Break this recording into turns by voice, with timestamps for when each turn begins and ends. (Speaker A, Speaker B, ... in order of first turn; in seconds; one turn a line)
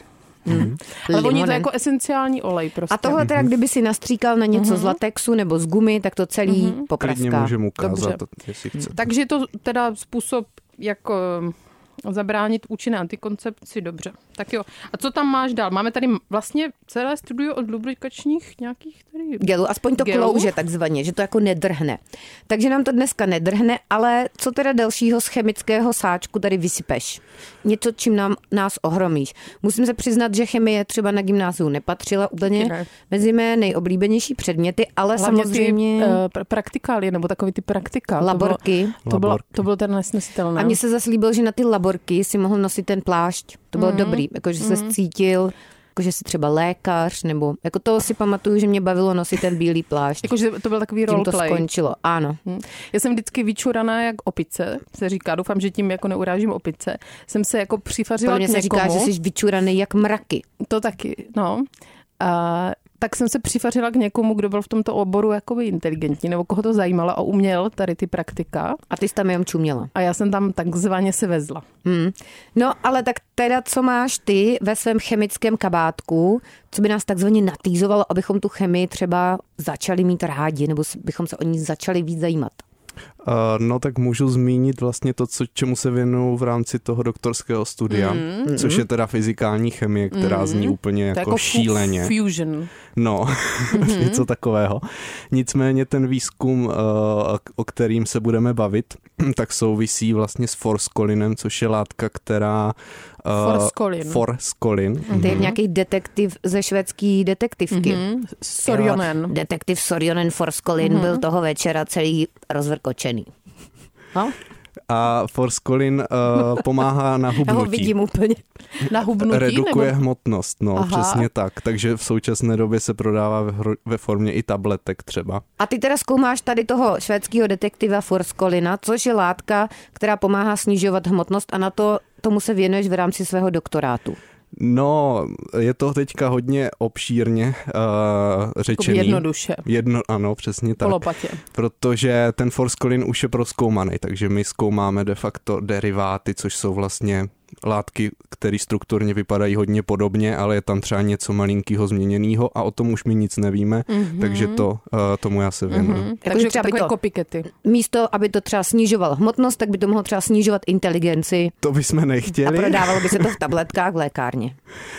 Speaker A: 0.5-1.7
Speaker B: 0.5-0.8
Speaker C: 1.0-3.2
Speaker A: 2.9-7.6
Speaker B: 3.2-3.5
Speaker C: 4.5-5.0
Speaker C: 6.5-6.8
Speaker B: 7.0-9.0
Speaker C: 7.8-8.2
Speaker C: 8.9-20.5
Speaker A: 19.4-36.2
Speaker C: 32.5-32.9
Speaker C: 35.2-40.8
Speaker A: 38.2-39.0
Speaker B: 39.1-39.5
Speaker A: 40.6-50.3
Speaker C: 43.8-44.9
Speaker C: 50.2-51.7
Speaker A: 51.1-52.4
Speaker C: 52.5-59.1
Speaker A: 58.2-60.5
Speaker C: 60.6-61.7
Speaker C: 62.2-68.8
Speaker A: 68.9-69.9
Speaker C: 70.0-71.6
Speaker A: 71.8-82.6
Speaker B: 83.2-92.1
Speaker C: 87.9-88.5
Speaker A: 88.5-88.8
Speaker C: 90.1-92.7
Speaker B: 93.0-105.5
Speaker C: 93.7-94.2
Speaker C: 103.4-104.2
Speaker C: 105.1-105.5
Speaker A: 105.1-108.0
Speaker C: 107.7-109.3
Speaker A: 108.7-113.3
Speaker C: 110.8-111.2
Speaker B: 114.9-117.9
Speaker A: 117.4-118.4
Speaker C: 118.9-120.0
Speaker B: 119.2-125.4
Speaker C: 120.8-121.3
Speaker A: 125.6-134.2
Speaker B: 134.6-156.1
Speaker C: 138.7-139.7
Speaker C: 140.8-141.4
Speaker C: 153.9-154.7
Speaker C: 155.7-157.5
Speaker A: 156.2-156.9
Speaker A: 157.5-161.5
Speaker B: 161.6-163.3
Speaker A: 162.4-164.6